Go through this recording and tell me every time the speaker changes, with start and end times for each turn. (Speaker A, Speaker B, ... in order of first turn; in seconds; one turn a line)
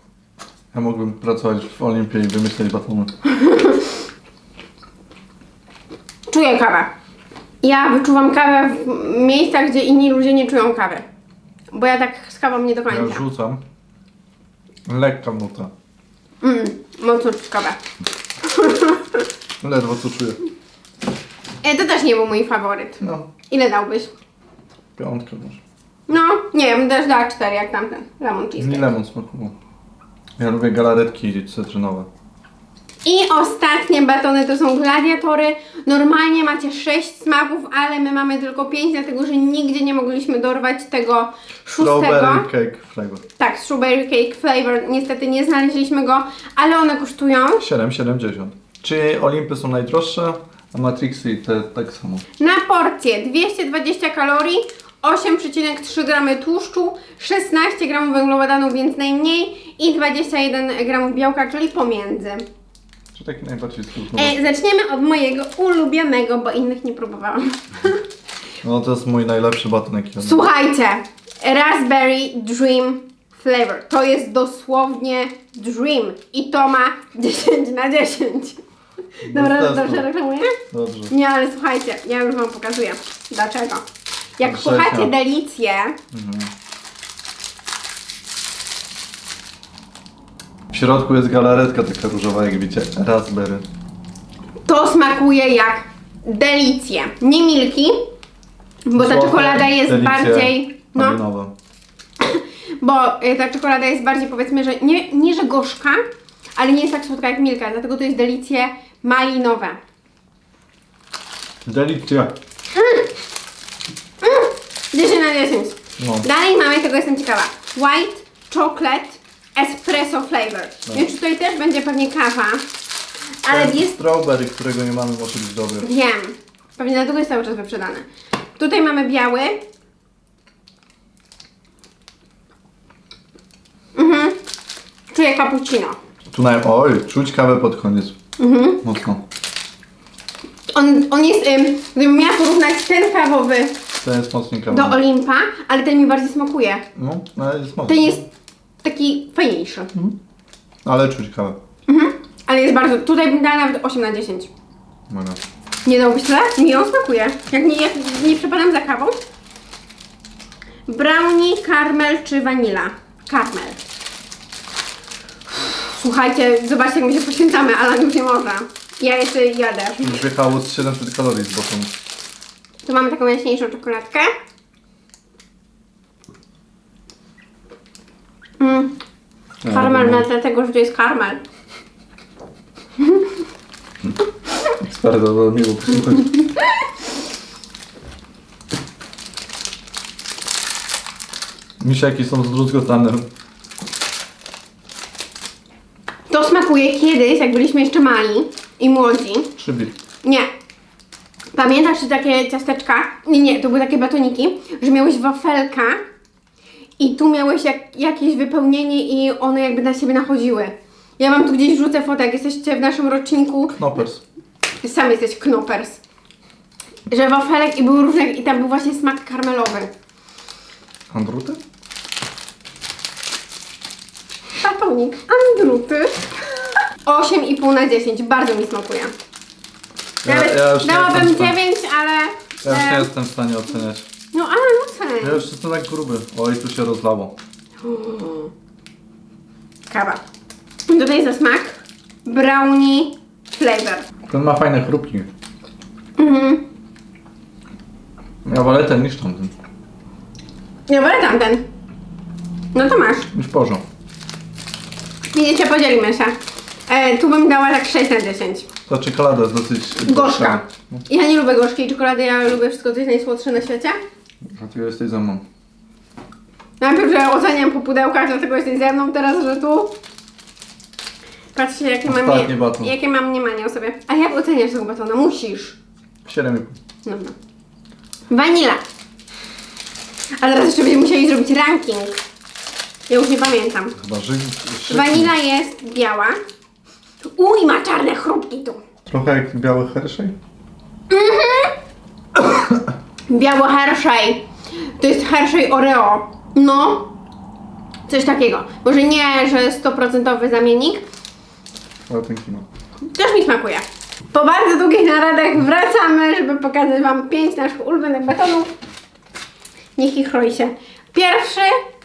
Speaker A: 0.7-3.1
Speaker B: 3.2-4.0
Speaker B: 6.3-6.9
Speaker B: 7.6-11.0
Speaker B: 11.7-13.2
Speaker A: 12.9-13.6
Speaker A: 14.9-15.7
Speaker B: 16.4-17.8
Speaker B: 18.4-19.2
Speaker A: 19.6-20.4
Speaker B: 21.6-24.1
Speaker A: 23.0-23.3
Speaker A: 24.9-25.6
Speaker B: 26.1-28.9
Speaker A: 28.6-29.5
Speaker A: 30.4-32.1
Speaker B: 33.0-42.5
Speaker A: 41.8-43.2
Speaker B: 43.4-47.6
Speaker A: 47.6-52.2
Speaker B: 52.4-62.4
Speaker A: 63.1-64.4
Speaker B: 64.1-68.0
Speaker A: 68.6-70.5
Speaker B: 70.2-78.6
Speaker B: 79.2-80.6
Speaker A: 79.2-80.1
Speaker A: 80.7-81.1
Speaker B: 81.1-83.8
Speaker B: 84.4-86.0
Speaker A: 84.4-85.1
Speaker A: 86.1-86.5
Speaker A: 90.7-93.6
Speaker B: 94.7-98.0
Speaker B: 98.9-101.2
Speaker A: 99.0-101.5
Speaker B: 102.2-106.0
Speaker B: 106.6-109.8
Speaker A: 111.7-112.3
Speaker B: 112.7-113.1
Speaker B: 114.2-122.6
Speaker A: 116.0-116.3
Speaker B: 123.4-123.9
Speaker A: 123.5-125.9
Speaker B: 125.8-129.6
Speaker B: 133.9-134.4
Speaker B: 135.1-136.0
Speaker A: 136.3-138.2
Speaker B: 138.4-138.8
Speaker A: 138.8-139.2
Speaker B: 140.7-143.8
Speaker A: 144.0-145.0
Speaker B: 144.7-146.8
Speaker A: 146.9-148.2
Speaker B: 147.9-148.2
Speaker B: 148.8-149.9
Speaker A: 150.8-151.6
Speaker B: 151.9-154.5
Speaker A: 155.1-155.4
Speaker B: 155.8-159.1
Speaker B: 160.9-163.8
Speaker B: 165.5-170.2
Speaker A: 170.0-171.9
Speaker B: 172.8-174.3
Speaker B: 178.6-179.0
Speaker A: 179.6-180.3
Speaker B: 179.7-181.4
Speaker B: 183.0-183.3
Speaker A: 184.7-186.3
Speaker A: 191.8-193.2
Speaker B: 196.3-199.5
Speaker A: 199.6-199.9
Speaker B: 200.2-200.5
Speaker B: 201.5-206.0
Speaker B: 207.0-213.8
Speaker A: 213.7-214.2
Speaker B: 214.8-216.0
Speaker B: 217.1-219.9
Speaker A: 221.1-221.6
Speaker B: 224.6-229.1
Speaker A: 230.2-231.6
Speaker B: 230.2-233.1
Speaker A: 232.6-234.1
Speaker B: 234.3-235.4
Speaker A: 235.2-237.3
Speaker B: 237.8-238.5
Speaker B: 239.9-240.2
Speaker B: 240.9-244.1
Speaker A: 244.3-245.3
Speaker B: 246.2-246.6
Speaker A: 248.4-249.5
Speaker B: 250.9-251.6
Speaker B: 252.7-253.3
Speaker A: 253.3-253.8
Speaker B: 255.3-256.3
Speaker B: 256.9-258.7
Speaker A: 258.9-261.0
Speaker B: 260.1-264.0
Speaker A: 264.4-265.4
Speaker B: 266.8-269.9
Speaker B: 271.5-275.8
Speaker A: 272.1-272.9
Speaker A: 276.2-276.8
Speaker B: 277.0-277.3
Speaker B: 278.3-278.8
Speaker B: 280.4-282.2
Speaker B: 283.1-284.0
Speaker A: 284.0-285.3
Speaker B: 284.9-286.4
Speaker B: 287.2-288.8
Speaker A: 289.1-290.4
Speaker B: 291.1-291.8
Speaker B: 293.3-297.1
Speaker B: 298.1-301.0
Speaker A: 302.1-302.6
Speaker B: 303.1-308.8
Speaker B: 310.0-311.8